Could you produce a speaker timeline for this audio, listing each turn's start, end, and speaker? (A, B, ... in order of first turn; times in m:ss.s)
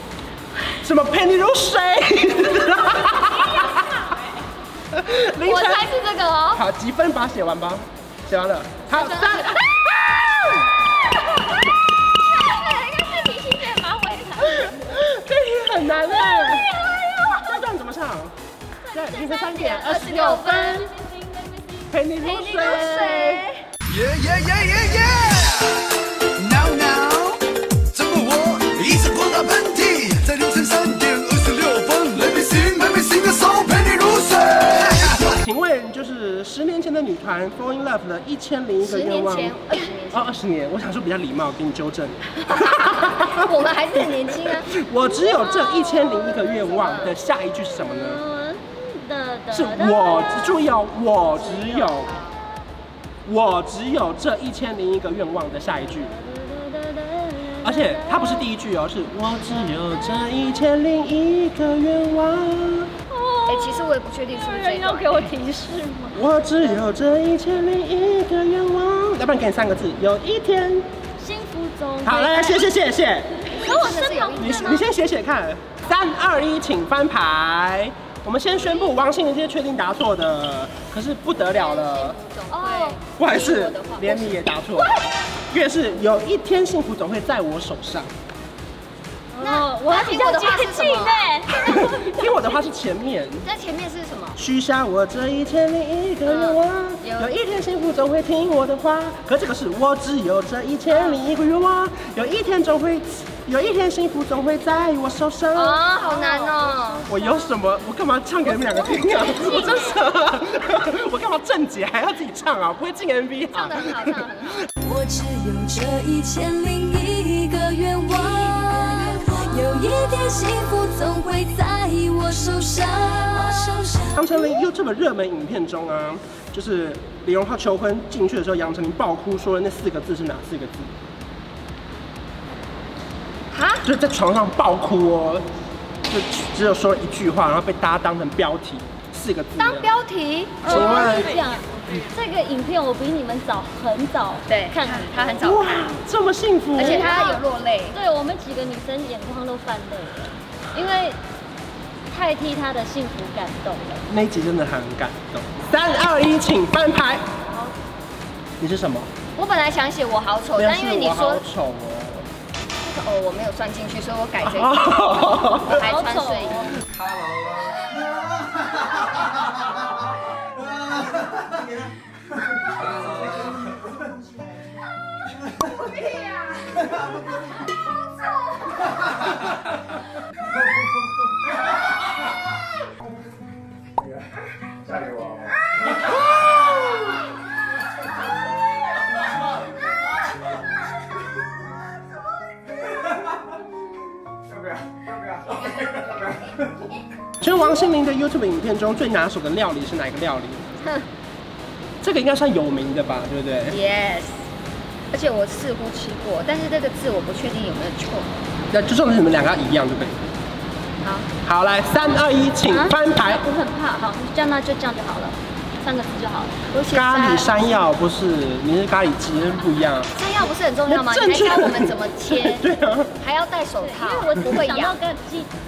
0:00.8-0:03.9 A
0:04.9-0:05.9 A
0:05.4-0:06.6 B
0:06.5-0:10.7 A
0:08.9-0:09.6 B
0:12.2-0:14.4 B
0:13.6-0:14.7 C
0:14.4-0:18.4 A
0:16.3-0:17.0 C
0:18.8-0:23.4 C
0:18.9-0:20.9 A
0:21.9-0:23.5 A
0:22.2-0:23.6 B
0:23.9-0:35.2 D
0:35.2-0:48.2 A
0:38.8-0:40.3 B
0:42.5-0:44.7 B
0:45.0-0:46.6 C
0:46.7-0:47.1 B
0:47.8-0:50.6 C
0:49.5-0:52.2 A
0:51.8-0:52.4 B
0:53.2-0:56.1 A
0:56.1-0:58.5 C
0:57.6-1:02.9 A
0:59.6-1:00.3 C
1:03.1-1:06.2 C
1:03.5-1:05.3 B
1:06.1-1:10.9 A
1:11.2-1:12.6 C
1:12.0-1:13.5 A
1:13.5-1:14.8 B
1:13.5-1:14.8 C
1:14.4-1:22.2 A
1:21.4-1:24.5 B
1:22.5-1:23.0 C
1:23.2-1:25.0 A
1:25.5-1:28.1 A
1:29.3-1:32.4 C
1:29.4-1:31.2 B
1:31.5-1:33.5 A
1:33.4-1:34.4 B
1:34.4-1:45.8 A
1:36.2-1:37.3 B
1:40.9-1:41.2 C
1:45.5-1:47.1 B
1:46.0-1:47.6 C
1:47.1-1:54.2 A
1:48.5-1:50.0 C
1:49.2-1:49.9 B
1:53.5-1:54.7 B
1:54.8-2:04.2 E
2:04.1-2:10.9 A
2:13.5-2:13.8 B
2:13.8-2:15.4 A
2:16.1-2:19.9 A
2:19.6-2:21.3 B
2:20.6-2:25.5 C
2:20.6-2:21.4 A
2:24.5-2:25.9 B
2:25.4-2:27.2 A
2:26.7-2:28.0 B
2:26.8-2:31.2 C
2:32.1-2:34.0 C
2:34.1-2:37.2 A
2:38.6-2:39.1 A
2:39.4-2:41.4 B
2:40.6-2:42.3 A
2:42.8-2:46.8 B
2:44.4-2:45.8 A
2:45.7-2:46.8 C
3:17.4-3:20.8 A
3:22.0-3:23.8 A
3:23.7-3:24.4 B
3:25.1-3:28.3 B
3:28.7-3:30.2 A
3:31.0-3:31.3 B
3:31.4-3:33.4 A
3:32.7-3:36.6 C
3:36.7-3:37.9 B
3:36.9-3:40.1 A
3:40.1-3:42.6 B
3:40.8-3:43.2 A
3:43.2-3:45.0 B
3:43.8-3:45.5 C